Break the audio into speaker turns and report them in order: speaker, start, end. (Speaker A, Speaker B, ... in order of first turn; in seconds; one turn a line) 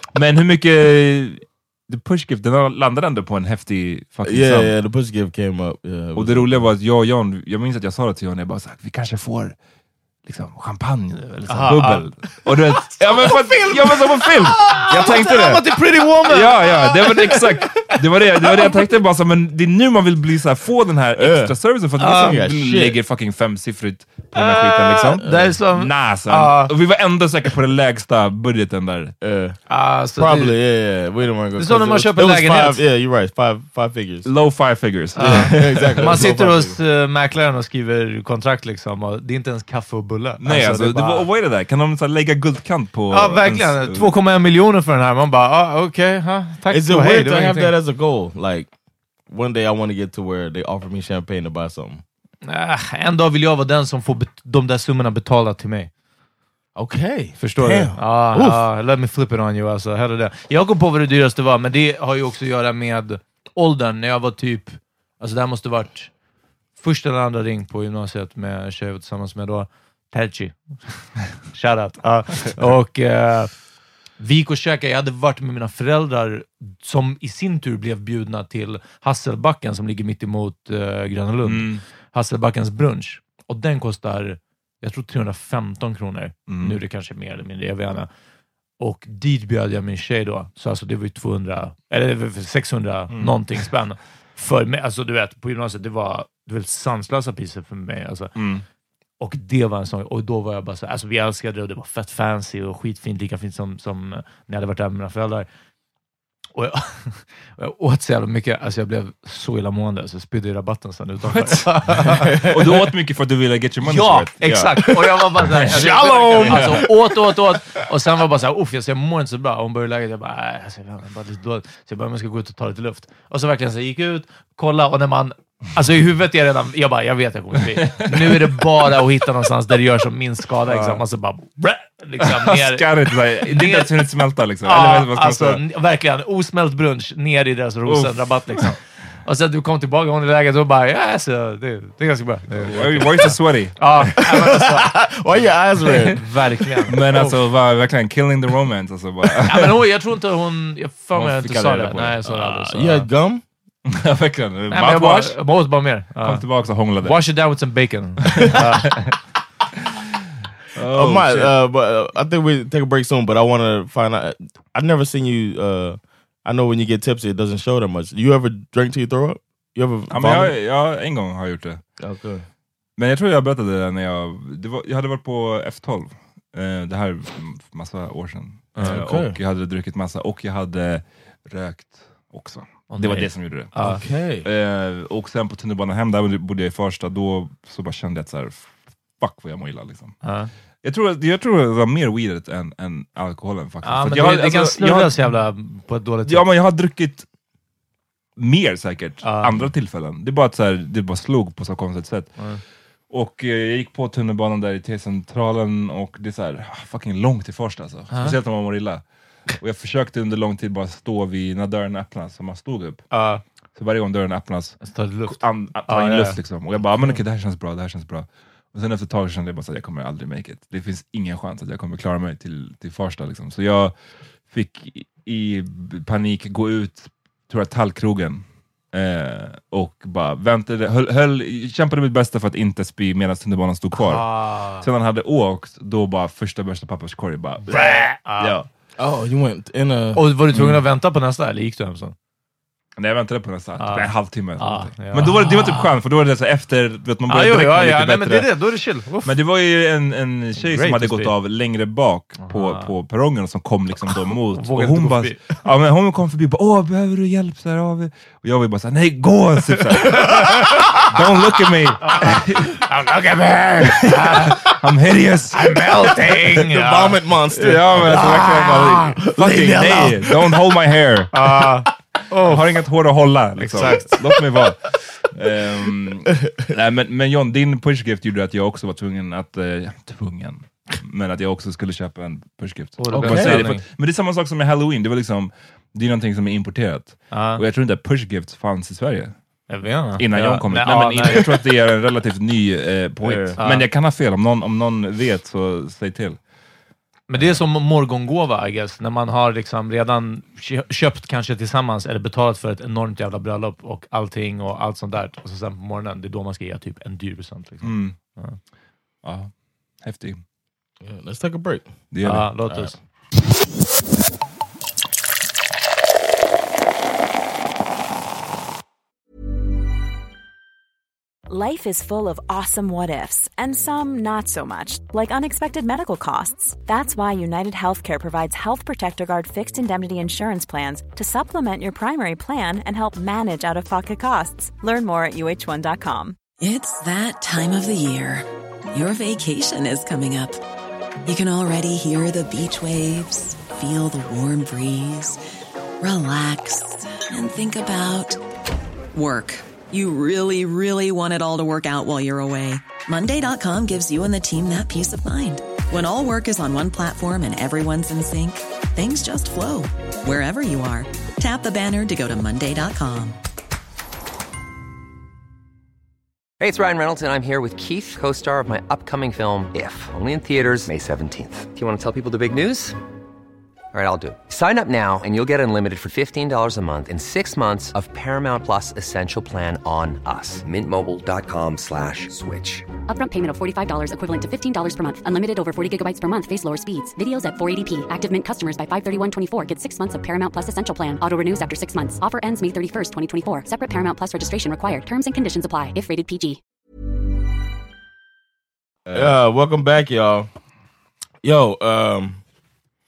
Speaker A: 0.1-4.7
Speaker B: 4.2-6.7
Speaker A: 6.1-9.5
Speaker A: 10.2-15.7
Speaker C: 11.5-12.0
Speaker C: 14.6-16.7
Speaker A: 16.2-29.1
Speaker B: 21.2-21.5
Speaker C: 22.0-22.4
Speaker B: 22.1-22.9
Speaker C: 24.3-26.7
Speaker B: 29.2-29.6
Speaker C: 29.7-30.6
Speaker B: 30.1-34.3
Speaker C: 31.6-32.8
Speaker A: 34.2-36.1
Speaker C: 35.1-41.2
Speaker B: 35.2-36.8
Speaker A: 40.4-44.1
Speaker C: 43.1-47.7
Speaker B: 46.7-48.7
Speaker B: 49.3-52.0
Speaker C: 52.4-55.9
Speaker B: 56.8-58.6
Speaker C: 57.4-66.1
Speaker C: 66.8-73.5
Speaker C: 74.2-88.1
Speaker A: 81.4-81.8
Speaker A: 86.5-86.8
Speaker C: 88.8-98.3
Speaker A: 93.1-93.6
Speaker A: 98.3-98.6
Speaker C: 99.2-105.5
Speaker C: 106.5-112.3
Speaker A: 111.2-116.9
Speaker B: 112.2-112.8
Speaker C: 113.8-134.0
Speaker B: 115.6-116.9
Speaker A: 127.8-128.6
Speaker A: 130.7-131.0
Speaker A: 132.2-135.6
Speaker C: 134.6-144.9
Speaker A: 137.8-138.7
Speaker A: 142.6-144.1
Speaker B: 144.2-146.2
Speaker C: 146.1-147.3
Speaker A: 146.9-149.8
Speaker C: 149.4-153.1
Speaker A: 151.1-152.3
Speaker B: 152.4-153.4
Speaker A: 153.8-155.4
Speaker C: 154.7-156.4
Speaker A: 156.2-157.2
Speaker C: 157.0-159.1
Speaker A: 158.2-158.9
Speaker A: 160.7-161.5
Speaker B: 160.9-170.5
Speaker A: 170.1-171.8
Speaker B: 172.0-172.4
Speaker A: 173.0-183.8
Speaker B: 178.8-179.3
Speaker C: 182.9-184.0
Speaker B: 183.8-184.4
Speaker A: 184.4-190.2
Speaker C: 190.2-190.5
Speaker A: 190.8-195.3
Speaker C: 193.8-196.4
Speaker A: 196.2-197.2
Speaker A: 198.4-202.4
Speaker C: 199.2-199.7
Speaker A: 203.1-209.0
Speaker C: 208.1-208.3
Speaker A: 209.6-213.0
Speaker C: 213.1-213.4
Speaker A: 213.8-223.9
Speaker C: 214.8-216.4
Speaker A: 224.5-237.7
Speaker C: 233.9-234.8
Speaker C: 237.7-238.6
Speaker A: 238.4-238.7
Speaker B: 239.0-240.2
Speaker C: 240.1-242.1
Speaker A: 240.5-240.8
Speaker A: 243.0-248.5
Speaker C: 243.8-245.9
Speaker C: 247.3-249.3
Speaker A: 249.2-262.8
Speaker C: 250.6-251.3
Speaker C: 252.4-252.9
Speaker C: 254.5-255.4
Speaker C: 260.0-260.7
Speaker C: 262.0-264.7
Speaker A: 263.8-265.9
Speaker C: 265.5-267.2
Speaker B: 266.4-269.8
Speaker A: 267.5-271.6
Speaker C: 268.1-270.3
Speaker C: 271.3-272.6
Speaker A: 272.4-289.3
Speaker C: 273.6-274.2
Speaker B: 273.8-274.0
Speaker C: 283.0-283.8
Speaker B: 283.1-283.7
Speaker C: 287.3-287.6
Speaker C: 289.7-291.5
Speaker A: 290.2-296.4
Speaker B: 293.2-293.6
Speaker C: 293.6-293.9
Speaker C: 297.3-308.6
Speaker A: 307.8-308.1
Speaker A: 309.2-309.5
Speaker A: 310.0-310.4
Speaker B: 311.0-311.9
Speaker A: 312.1-312.5
Speaker C: 312.2-313.0
Speaker D: 321.5-336.4
Speaker E: 336.6-340.6
Speaker E: 341.2-345.4
Speaker E: 346.0-348.4
Speaker E: 349.1-363.4
Speaker F: 366.6-372.9
Speaker F: 373.9-382.9
Speaker G: 383.1-396.6
Speaker A: 399.1-399.3
Speaker B: 399.1-400.5
Speaker B: 401.4-402.4